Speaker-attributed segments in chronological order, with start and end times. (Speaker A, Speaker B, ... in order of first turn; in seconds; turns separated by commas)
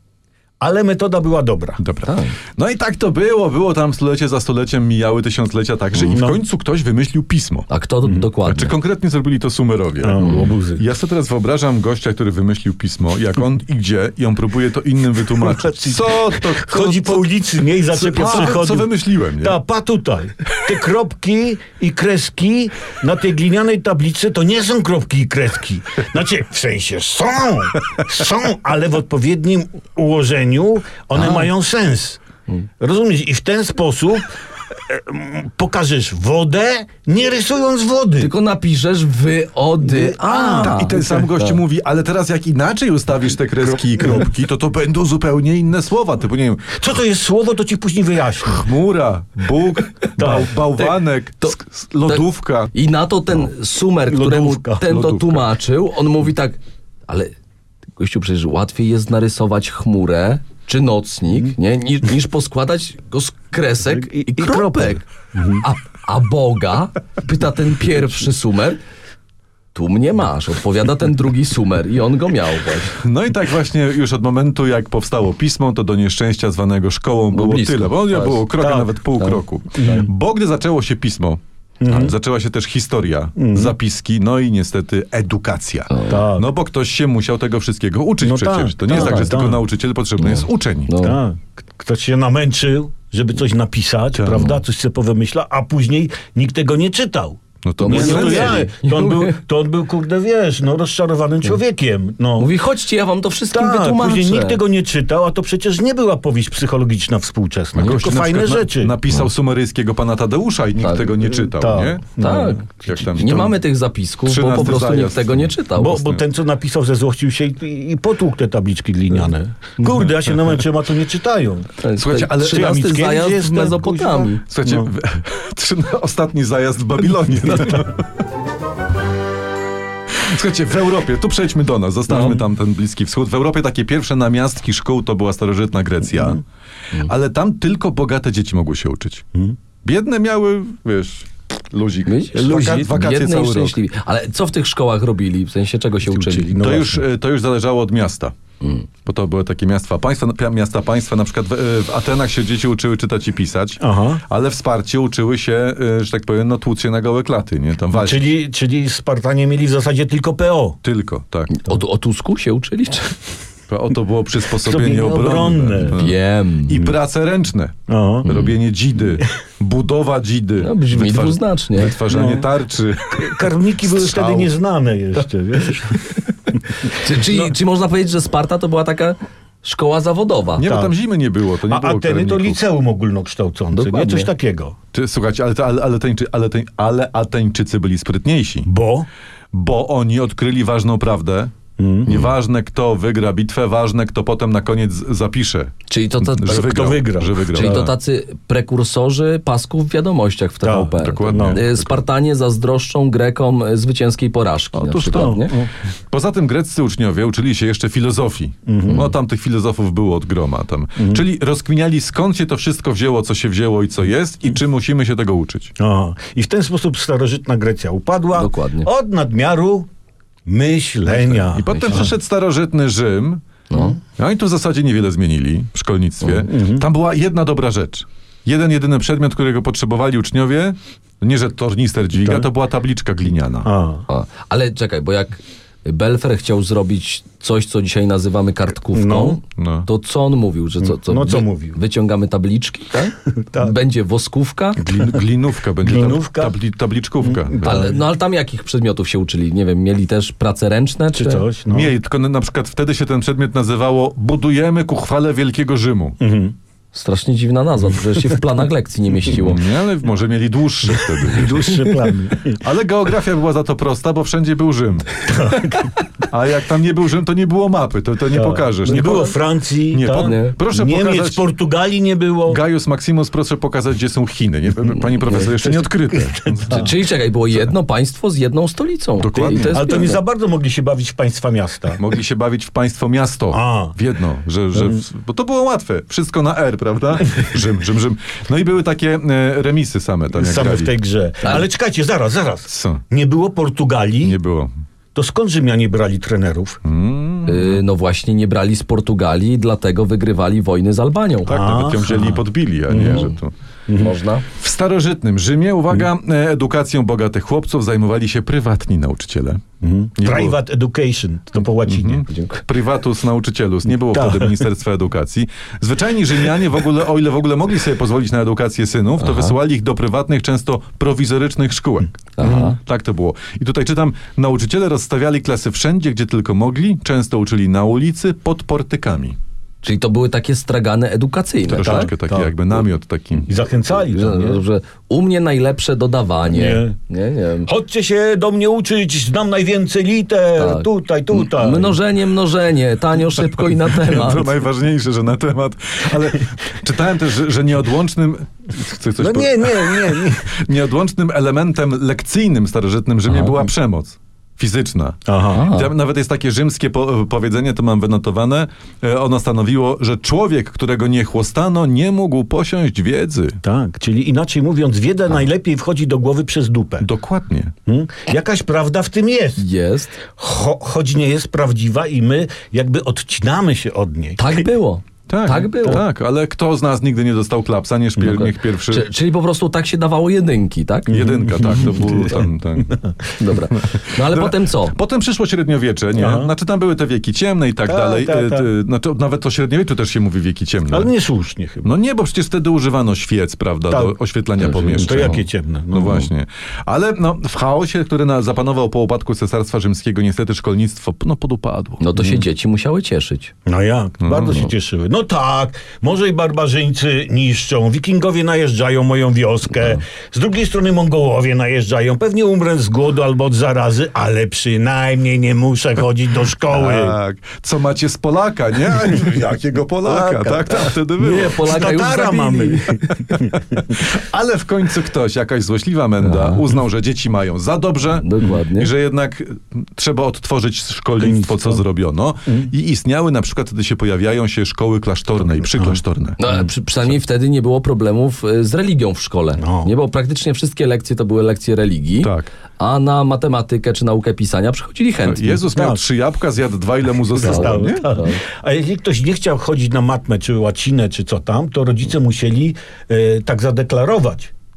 Speaker A: 0.6-1.8, Speaker B: 1.8-7.7, Speaker C: 2.0-2.3, Speaker A: 5.9-6.4, Speaker C: 7.7-8.7, Speaker B: 8.4-17.3, Speaker A: 10.0-10.8, Speaker C: 10.2-10.4, Speaker A: 15.3-32.2, Speaker B: 17.9-19.6, Speaker C: 31.1-31.5, Speaker A: 32.8-38.3, Speaker C: 38.2-41.6, Speaker A: 39.8-41.3, Speaker B: 40.5-46.8, Speaker A: 46.7-48.6, Speaker B: 48.5-52.7, Speaker A: 50.2-50.5, Speaker C: 50.8-51.5, Speaker C: 52.1-57.3, Speaker A: 54.1-54.9, Speaker B: 54.9-55.4, Speaker C: 58.0-65.0, Speaker A: 63.8-65.6, Speaker C: 65.6-68.8, Speaker C: 69.7-73.0, Speaker B: 73.0-91.0, Speaker C: 77.3-78.4, Speaker A: 78.6-78.9, Speaker C: 79.2-80.0, Speaker A: 79.8-80.1, Speaker A: 81.8-82.1, Speaker A: 83.3-83.7, Speaker C: 85.9-86.3, Speaker A: 86.1-86.5, Speaker A: 88.2-89.6, Speaker C: 88.9-89.3, Speaker C: 90.2-91.2, Speaker A: 91.0-102.5, Speaker B: 94.1-94.5, Speaker B: 97.6-98.7, Speaker C: 97.8-99.4, Speaker C: 102.4-104.6, Speaker A: 103.5-109.0, Speaker B: 107.8-113.6, Speaker C: 110.8-111.0, Speaker A: 111.4-113.0, Speaker C: 112.2-116.0, Speaker B: 114.2-116.2, Speaker A: 115.7-121.7, Speaker C: 121.8-124.4, Speaker B: 122.0-122.8, Speaker A: 122.4-124.9, Speaker B: 124.5-128.1, Speaker B: 130.2-136.4, Speaker C: 132.1-132.4, Speaker B: 136.9-139.2, Speaker B: 139.8-143.8, Speaker C: 142.1-146.6, Speaker A: 142.3-142.9, Speaker A: 146.0-147.0, Speaker B: 146.5-148.3, Speaker B: 149.0-158.3, Speaker A: 153.8-154.2, Speaker A: 157.9-160.8, Speaker B: 160.8-161.6, Speaker C: 161.5-163.2, Speaker B: 163.7-174.5, Speaker A: 164.6-166.0, Speaker C: 165.9-166.8, Speaker A: 167.9-168.3, Speaker C: 168.3-168.5, Speaker C: 170.6-172.3, Speaker A: 172.1-172.5, Speaker A: 173.1-176.1, Speaker A: 176.7-177.5, Speaker C: 176.8-180.7, Speaker B: 180.6-182.6, Speaker A: 180.6-180.9, Speaker A: 181.7-184.8, Speaker C: 183.7-184.3, Speaker B: 184.9-188.7, Speaker A: 188.7-189.1, Speaker B: 189.5-197.9, Speaker A: 191.8-192.3, Speaker C: 195.9-196.6, Speaker A: 196.4-197.9, Speaker C: 197.5-205.5, Speaker A: 200.6-201.6, Speaker B: 201.0-202.0, Speaker B: 204.7-205.5, Speaker A: 205.1-205.7, Speaker B: 206.1-215.7, Speaker A: 208.7-209.1, Speaker A: 211.0-211.2, Speaker A: 215.8-219.9, Speaker C: 218.3-218.9, Speaker A: 220.4-222.1, Speaker B: 221.5-223.4, Speaker C: 221.7-222.1, Speaker C: 223.7-224.0, Speaker B: 224.2-233.7, Speaker A: 226.4-226.8, Speaker A: 232.2-232.5, Speaker A: 233.6-234.0, Speaker C: 234.1-244.8, Speaker A: 238.9-239.4, Speaker B: 239.6-239.9, Speaker A: 240.8-241.8, Speaker A: 243.4-243.8, Speaker B: 244.8-247.9, Speaker A: 244.9-245.2, Speaker A: 245.8-246.6, Speaker A: 247.2-247.9, Speaker C: 247.6-251.4, Speaker A: 251.1-251.9, Speaker B: 251.7-256.2, Speaker A: 256.2-256.5, Speaker C: 256.9-259.6, Speaker B: 259.4-261.8, Speaker A: 261.2-262.6, Speaker C: 261.5-261.9, Speaker B: 262.5-265.3, Speaker A: 265.2-265.9, Speaker B: 266.3-269.3, Speaker A: 268.3-272.6, Speaker C: 268.8-269.3, Speaker B: 269.9-271.4, Speaker C: 270.1-270.6, Speaker B: 272.5-276.9, Speaker A: 275.6-276.9, Speaker C: 276.7-280.2, Speaker B: 279.2-280.1, Speaker A: 279.7-282.0, Speaker B: 281.9-290.9, Speaker A: 283.5-283.9, Speaker A: 284.7-285.0, Speaker A: 290.3-294.4, Speaker B: 292.7-293.0, Speaker B: 294.2-294.7, Speaker A: 295.1-296.8, Speaker B: 296.8-297.8, Speaker C: 297.5-301.5, Speaker A: 301.4-303.3, Speaker B: 301.4-303.5, Speaker C: 302.9-303.3, Speaker A: 303.9-304.1, Speaker C: 304.0-304.4, Speaker B: 304.5-309.6, Speaker A: 309.8-312.2, Speaker B: 310.1-310.6, Speaker B: 311.9-329.4, Speaker C: 312.3-312.6, Speaker A: 314.1-314.7, Speaker C: 319.2-319.5, Speaker C: 322.4-322.8, Speaker A: 322.4-322.8, Speaker C: 329.8-332.1, Speaker B: 331.7-333.5, Speaker A: 331.8-332.5, Speaker A: 333.5-334.6, Speaker C: 334.1-337.7, Speaker A: 336.5-336.9, Speaker A: 337.6-342.0, Speaker C: 340.6-344.5, Speaker B: 344.0-363.6, Speaker A: 349.2-350.6, Speaker A: 353.3-353.5, Speaker A: 355.3-355.6, Speaker C: 355.5-355.9, Speaker A: 363.6-367.1, Speaker B: 367.0-367.7, Speaker A: 367.9-369.6, Speaker C: 369.6-370.1, Speaker A: 370.2-374.7, Speaker C: 374.4-376.0, Speaker B: 375.3-379.1, Speaker C: 378.2-382.4, Speaker B: 381.1-383.0, Speaker A: 381.1-383.2, Speaker C: 383.4-384.9, Speaker B: 383.8-391.1, Speaker A: 386.1-386.5, Speaker A: 387.9-388.7, Speaker A: 390.9-391.9, Speaker B: 391.8-402.1, Speaker A: 393.9-394.1, Speaker C: 394.6-395.4, Speaker A: 394.9-396.1, Speaker C: 396.0-396.3, Speaker C: 402.0-403.5, Speaker A: 403.6-417.1, Speaker B: 404.2-404.6, Speaker B: 416.7-421.6, Speaker A: 420.0-420.9, Speaker C: 421.2-423.0, Speaker A: 421.4-424.0, Speaker B: 423.3-436.4, Speaker C: 426.2-426.7, Speaker C: 428.2-428.9, Speaker A: 431.2-431.8, Speaker A: 435.7-436.0, Speaker C: 436.4-445.6, Speaker A: 439.6-439.9, Speaker B: 442.2-442.5, Speaker B: 445.2-448.1, Speaker A: 445.7-446.0, Speaker A: 447.4-454.5, Speaker C: 447.4-448.4